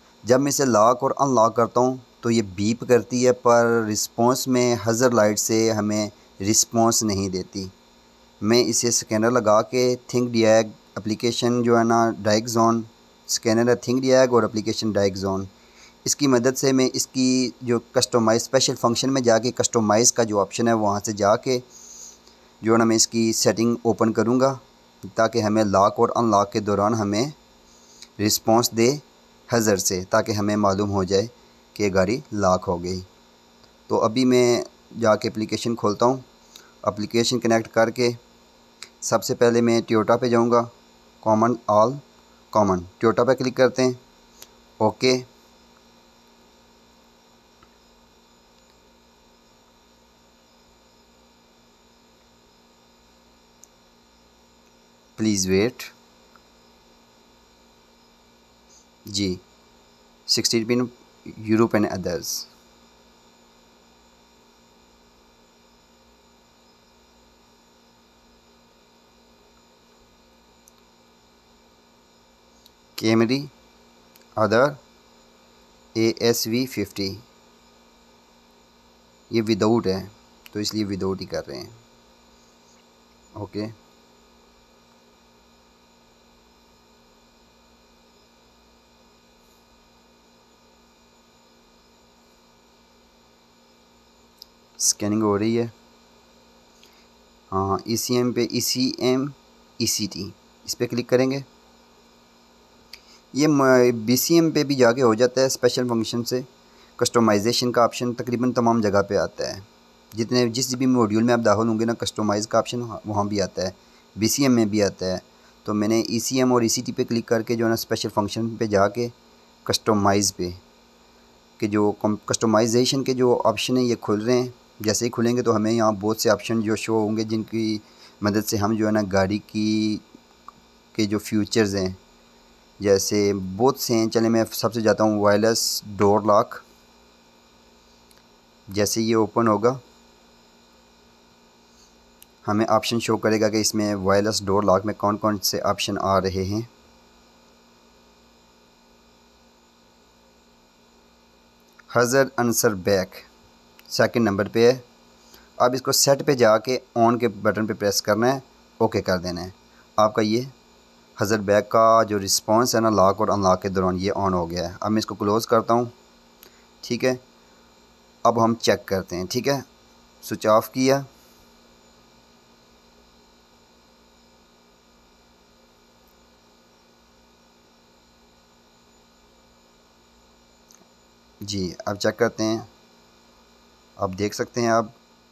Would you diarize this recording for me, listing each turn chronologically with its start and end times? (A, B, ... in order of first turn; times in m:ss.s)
0:00.2-0:07.7 A
0:08.4-0:15.5 A
0:16.0-0:21.6 A
0:22.6-0:27.3 A
0:28.2-0:33.0 A
0:33.9-0:36.2 A
0:36.8-0:38.2 A
0:39.0-0:40.7 A
0:41.2-0:44.0 A
0:44.8-0:45.3 A
0:55.2-0:55.9 A
0:59.1-0:59.4 A
1:00.3-1:02.5 A
1:13.0-1:13.5 A
1:14.4-1:14.8 A
1:15.9-1:17.2 A
1:19.3-1:21.8 A
1:23.4-1:23.7 A
1:34.8-1:35.7 A
1:37.5-1:41.4 A
1:43.3-1:46.5 A
1:47.0-1:59.1 A
1:59.6-2:00.6 A
2:01.6-2:10.0 A
2:10.9-2:12.0 A
2:12.8-2:16.6 A
2:18.7-2:19.8 A
2:22.4-2:26.7 A
2:31.9-2:33.3 A
2:33.9-2:34.8 A
2:35.6-2:40.5 A
2:41.2-2:45.9 A
2:46.8-2:47.2 A
2:48.2-2:49.6 A
2:50.2-2:51.0 A
3:01.4-3:02.7 A
3:04.0-3:04.9 A